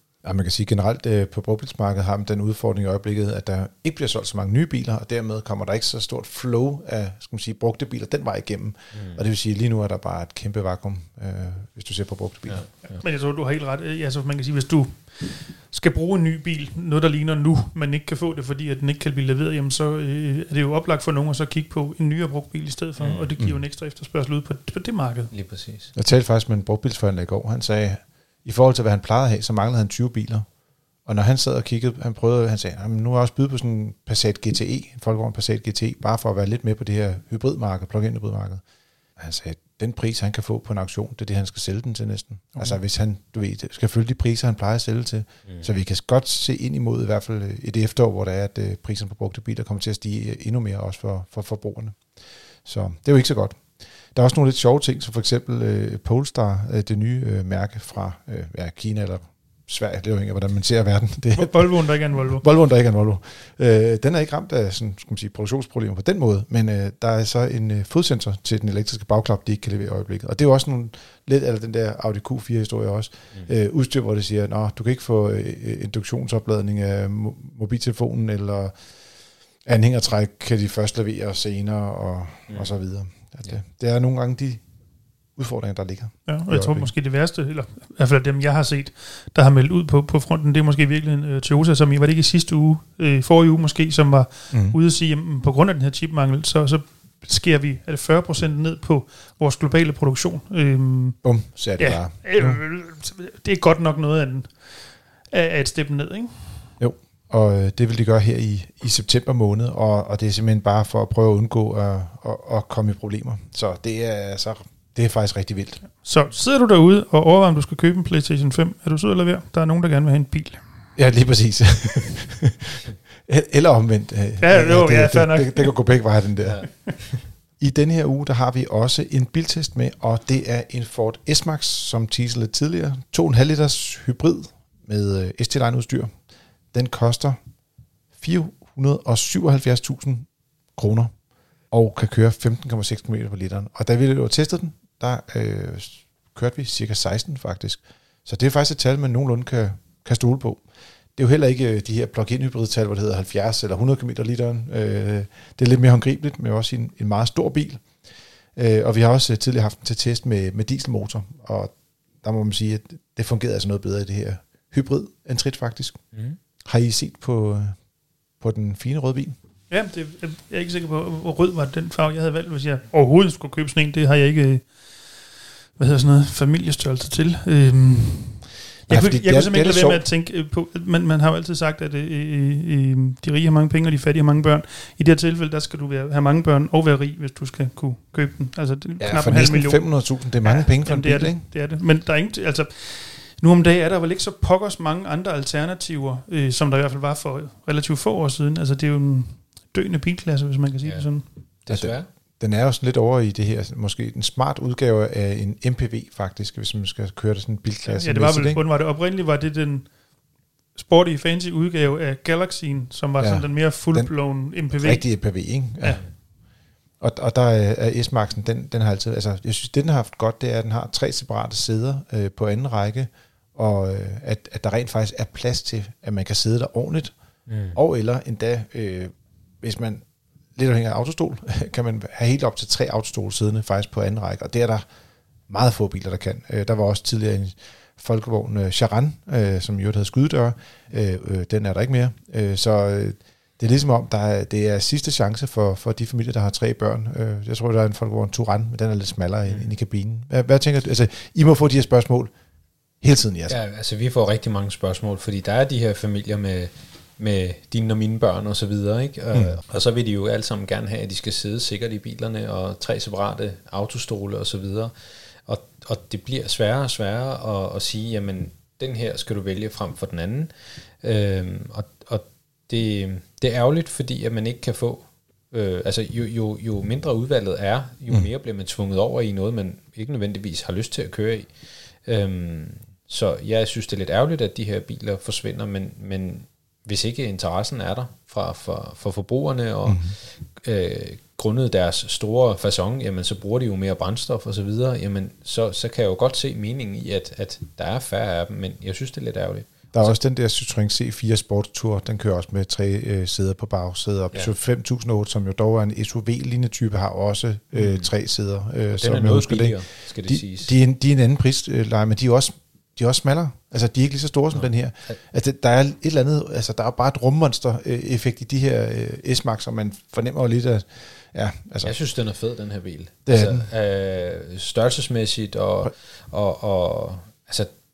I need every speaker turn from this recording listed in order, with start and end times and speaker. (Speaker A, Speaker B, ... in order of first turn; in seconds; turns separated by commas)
Speaker A: 0.2-12.9, Speaker B: 8.9-9.2, Speaker B: 12.5-13.0, Speaker C: 12.9-25.3, Speaker B: 23.0-23.5, Speaker B: 25.3-25.9, Speaker A: 25.9-30.5, Speaker A: 31.0-38.6, Speaker A: 39.2-78.8, Speaker C: 61.3-62.4, Speaker A: 79.6-84.6, Speaker A: 85.3-86.9, Speaker C: 86.2-106.7, Speaker A: 94.5-94.8, Speaker A: 101.2-102.6, Speaker A: 106.8-115.8, Speaker C: 115.9-120.6, Speaker A: 121.0-136.2, Speaker C: 124.4-125.9, Speaker B: 126.4-127.3, Speaker A: 136.7-137.4, Speaker A: 138.2-141.1, Speaker A: 141.7-150.6, Speaker A: 151.2-157.9, Speaker A: 158.5-166.0, Speaker B: 166.1-166.4, Speaker A: 166.6-167.8, Speaker A: 168.4-169.3, Speaker C: 169.7-201.3, Speaker A: 178.9-180.1, Speaker A: 189.0-191.5, Speaker B: 200.8-202.1, Speaker A: 201.7-208.6, Speaker C: 207.8-209.9, Speaker C: 210.7-216.0, Speaker A: 213.2-216.2, Speaker A: 217.0-227.1, Speaker B: 227.5-227.8, Speaker A: 227.7-230.0, Speaker A: 230.6-234.8, Speaker A: 235.5-252.3, Speaker A: 253.0-253.6, Speaker B: 253.5-300.2, Speaker A: 259.3-259.6, Speaker A: 289.9-290.1, Speaker A: 299.9-322.0, Speaker B: 307.7-308.1, Speaker B: 308.9-310.7, Speaker B: 314.5-315.2, Speaker B: 321.8-327.8, Speaker A: 323.2-323.7